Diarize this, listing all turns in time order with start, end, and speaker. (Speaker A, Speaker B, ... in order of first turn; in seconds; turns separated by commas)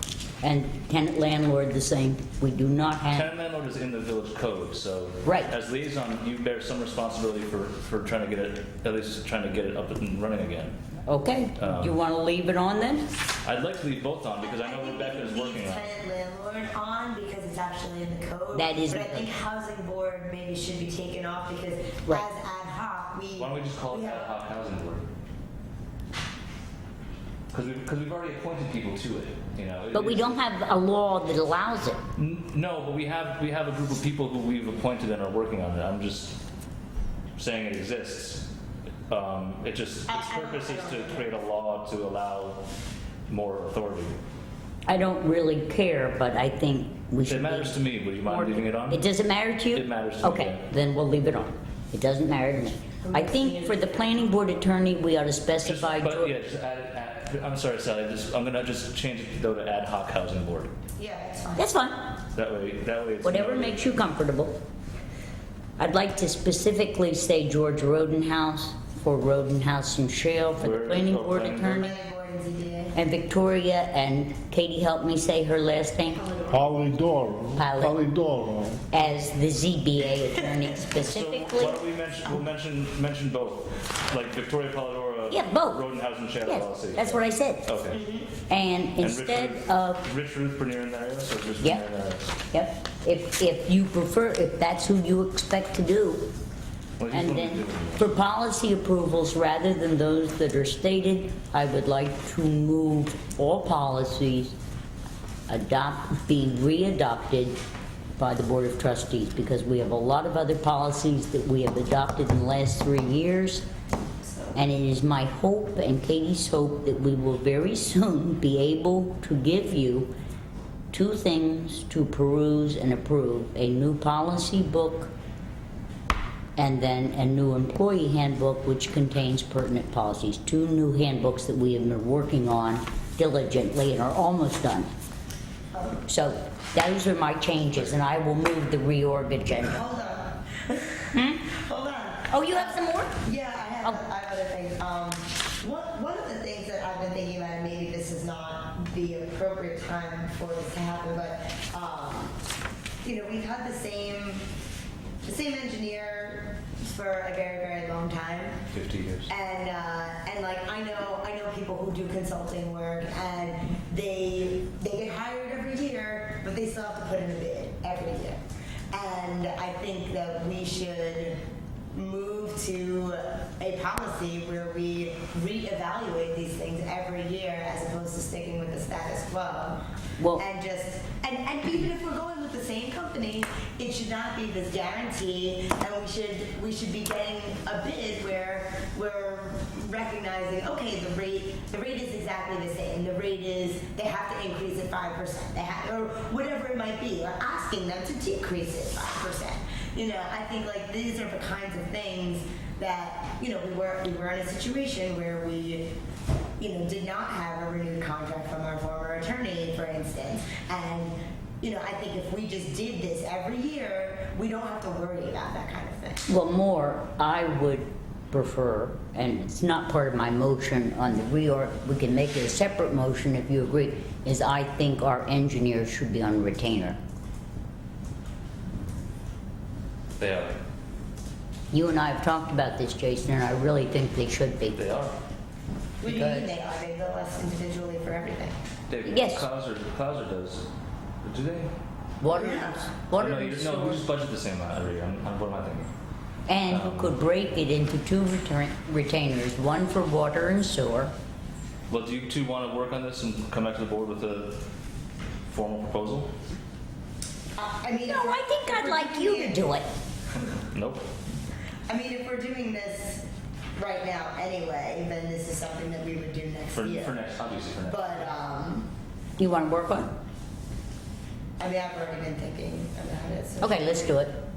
Speaker A: 0.4-3.3, Speaker B: 3.1-10.8, Speaker A: 5.2-5.5, Speaker A: 11.1-13.1, Speaker B: 11.6-11.9, Speaker B: 13.4-15.9, Speaker C: 14.4-24.3, Speaker A: 18.5-19.3, Speaker B: 23.4-25.1, Speaker B: 27.5-30.4, Speaker A: 29.9-32.0, Speaker B: 32.2-36.4, Speaker B: 37.4-38.5, Speaker B: 39.1-42.7, Speaker C: 40.1-41.4, Speaker B: 43.3-44.2, Speaker A: 44.9-56.3, Speaker B: 47.2-49.0, Speaker B: 49.7-50.7, Speaker C: 53.0-54.4, Speaker B: 55.6-60.7, Speaker C: 61.0-61.9, Speaker A: 61.6-62.1, Speaker B: 62.3-64.0, Speaker A: 63.2-64.6, Speaker A: 65.8-71.9, Speaker B: 70.6-71.9, Speaker C: 71.6-73.0, Speaker A: 73.0-76.2, Speaker C: 76.2-76.8, Speaker D: 76.5-78.8, Speaker A: 77.6-78.0, Speaker A: 78.9-81.8, Speaker C: 80.0-80.7, Speaker B: 81.0-88.0, Speaker A: 85.3-85.8, Speaker A: 86.4-87.7, Speaker C: 87.9-88.4, Speaker A: 88.5-90.0, Speaker B: 89.0-92.3, Speaker A: 92.5-96.3, Speaker B: 97.0-98.1, Speaker A: 97.1-104.6, Speaker A: 105.5-107.6, Speaker A: 108.2-113.7, Speaker A: 114.5-120.1, Speaker A: 120.9-125.1, Speaker A: 126.6-134.9, Speaker C: 135.7-136.0, Speaker A: 136.1-139.8, Speaker C: 139.6-152.4, Speaker A: 141.1-141.5, Speaker A: 142.3-143.2, Speaker C: 153.0-154.4, Speaker C: 155.2-158.6, Speaker B: 158.7-159.3, Speaker C: 159.3-168.4, Speaker C: 168.9-171.4, Speaker C: 171.9-205.9, Speaker A: 180.2-180.4, Speaker C: 206.6-216.2, Speaker A: 216.3-227.0, Speaker B: 230.2-230.6, Speaker A: 231.7-234.8, Speaker B: 234.7-235.2, Speaker C: 236.0-238.6, Speaker A: 236.0-236.5, Speaker B: 238.9-240.7, Speaker A: 239.1-239.5, Speaker B: 241.2-241.7, Speaker A: 242.2-244.0, Speaker C: 242.3-242.9, Speaker B: 243.1-245.9, Speaker A: 246.5-251.1, Speaker B: 246.7-247.2, Speaker B: 251.9-254.6, Speaker B: 255.5-256.3, Speaker C: 257.6-259.7, Speaker A: 258.0-259.9, Speaker B: 260.7-261.1, Speaker C: 261.9-263.2, Speaker C: 263.8-267.2, Speaker B: 266.7-268.3, Speaker C: 267.8-268.9, Speaker A: 269.4-270.1, Speaker C: 271.6-274.2, Speaker A: 273.6-274.3